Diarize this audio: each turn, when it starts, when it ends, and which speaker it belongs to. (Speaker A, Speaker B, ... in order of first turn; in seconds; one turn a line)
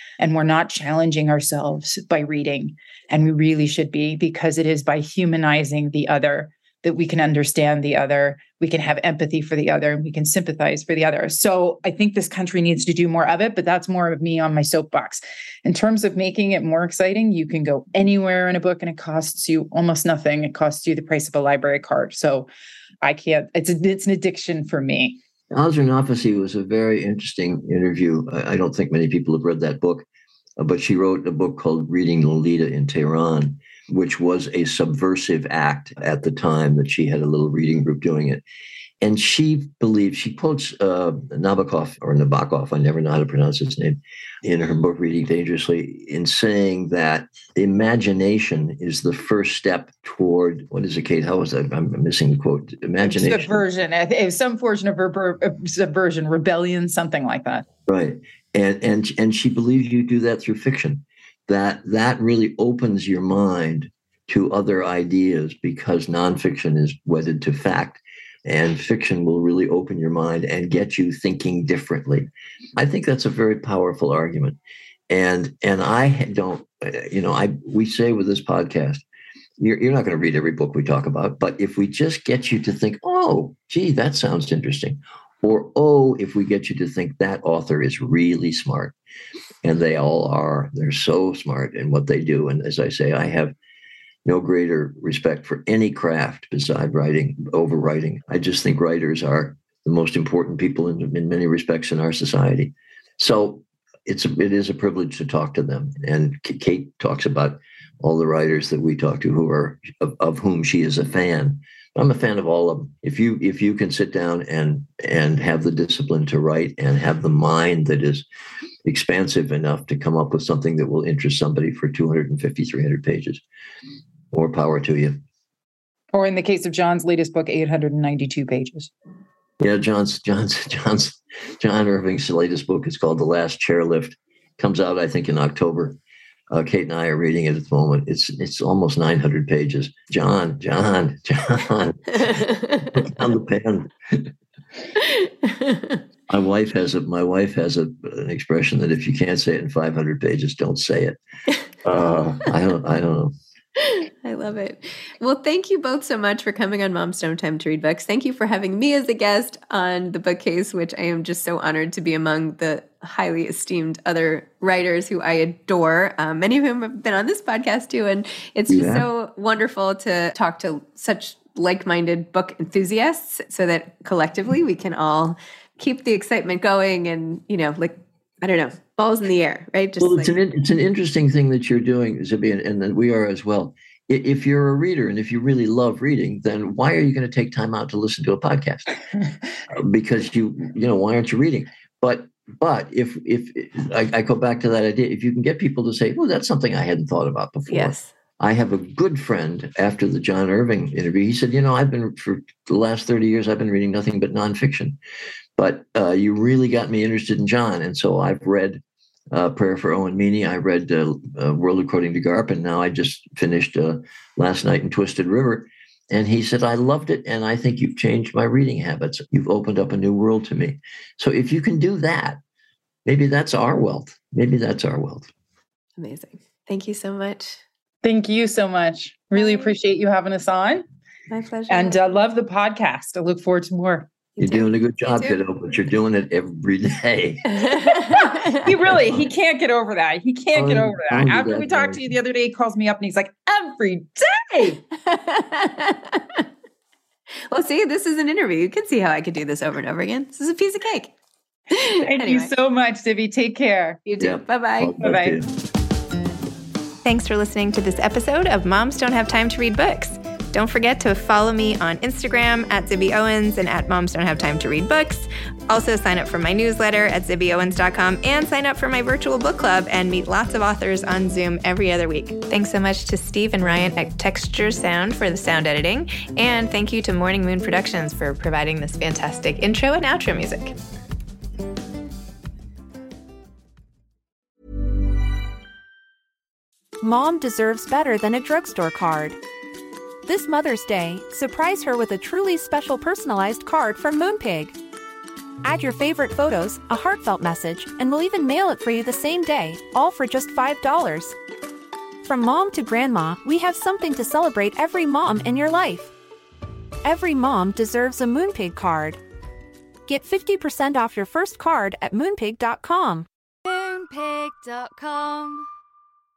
Speaker A: 0.2-22.5
Speaker A: 23.0-25.2
Speaker B: 25.5-30.1
Speaker B: 30.6-38.4
Speaker B: 39.0-53.6
Speaker A: 53.0-57.6
Speaker B: 57.9-79.0
Speaker B: 79.6-88.9
Speaker B: 89.6-93.5
Speaker B: 94.2-118.2
Speaker B: 118.8-123.4
Speaker B: 124.3-125.2
Speaker A: 126.1-128.9
Speaker B: 129.6-136.0
Speaker B: 136.5-144.3
Speaker C: 145.0-146.0
Speaker B: 146.3-151.2
Speaker B: 151.8-153.3
Speaker C: 153.8-180.3
Speaker B: 168.7-169.1
Speaker B: 180.0-188.9
Speaker B: 189.7-205.0
Speaker C: 197.7-198.1
Speaker B: 205.6-222.4
Speaker B: 223.0-225.3
Speaker C: 226.0-227.6
Speaker A: 228.0-230.8
Speaker C: 229.3-229.7
Speaker C: 231.3-232.0
Speaker A: 231.7-234.2
Speaker C: 234.3-235.4
Speaker B: 234.4-237.6
Speaker C: 237.5-238.7
Speaker A: 238.6-244.8
Speaker B: 238.6-239.2
Speaker B: 240.5-242.2
Speaker C: 245.0-246.4
Speaker C: 247.5-251.1
Speaker C: 251.7-252.5
Speaker A: 251.8-254.0
Speaker C: 254.1-255.0
Speaker B: 254.2-255.5
Speaker A: 255.0-255.4
Speaker D: 257.0-280.8
Speaker E: 287.0-289.4
Speaker E: 290.2-294.8
Speaker E: 295.6-301.3
Speaker E: 302.2-306.1
Speaker E: 307.0-309.2
Speaker E: 310.1-313.3
Speaker F: 313.6-315.7